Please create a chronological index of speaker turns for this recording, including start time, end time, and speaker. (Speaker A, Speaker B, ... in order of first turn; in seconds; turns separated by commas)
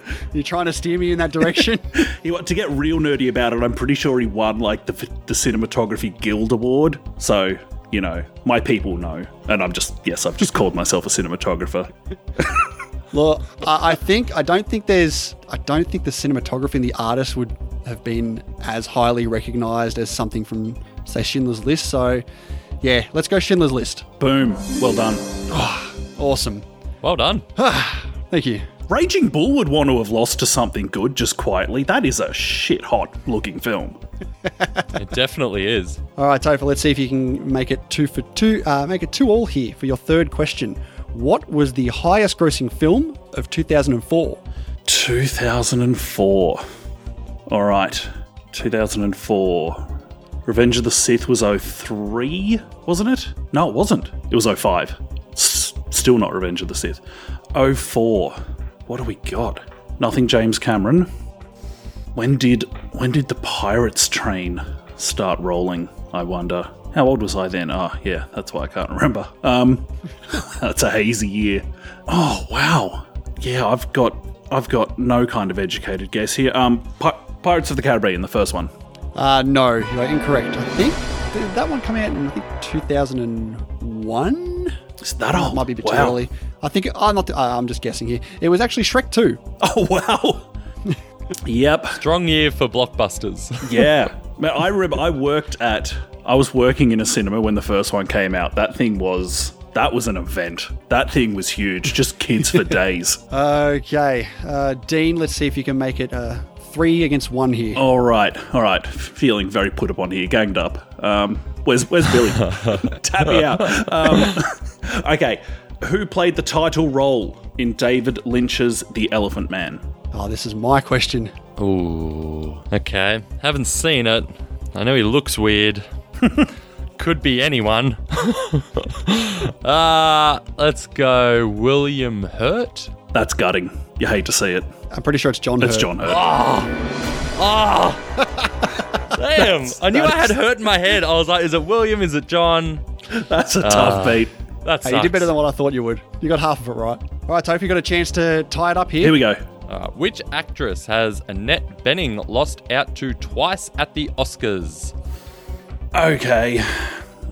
Speaker A: 0.3-1.9, Speaker B: 2.0-12.5, Speaker A: 13.1-22.2, Speaker A: 22.8-24.1, Speaker B: 24.2-25.3, Speaker A: 25.5-26.6, Speaker C: 27.0-27.4, Speaker A: 27.6-28.6, Speaker B: 28.9-34.0, Speaker C: 34.9-36.0, Speaker A: 36.2-44.4, Speaker B: 44.9-46.6, Speaker B: 47.5-49.9, Speaker B: 50.5-57.0, Speaker B: 57.5-61.1, Speaker B: 62.1-78.7, Speaker A: 79.1-84.8, Speaker B: 85.0-86.2, Speaker A: 85.3-89.4, Speaker B: 89.6-90.5, Speaker B: 91.4-92.0, Speaker C: 92.0-93.9, Speaker B: 93.6-103.2, Speaker A: 103.3-107.8, Speaker B: 107.8-119.8, Speaker A: 120.1-121.3, Speaker C: 121.6-125.8, Speaker C: 127.0-132.9, Speaker B: 133.1-134.7, Speaker A: 134.9-135.9, Speaker B: 135.6-136.2, Speaker C: 136.0-136.7, Speaker C: 137.3-138.0, Speaker C: 139.1-142.8, Speaker B: 143.1-144.3, Speaker C: 143.6-145.3, Speaker A: 144.8-149.2, Speaker B: 149.0-149.4, Speaker C: 149.7-154.9, Speaker B: 155.9-157.0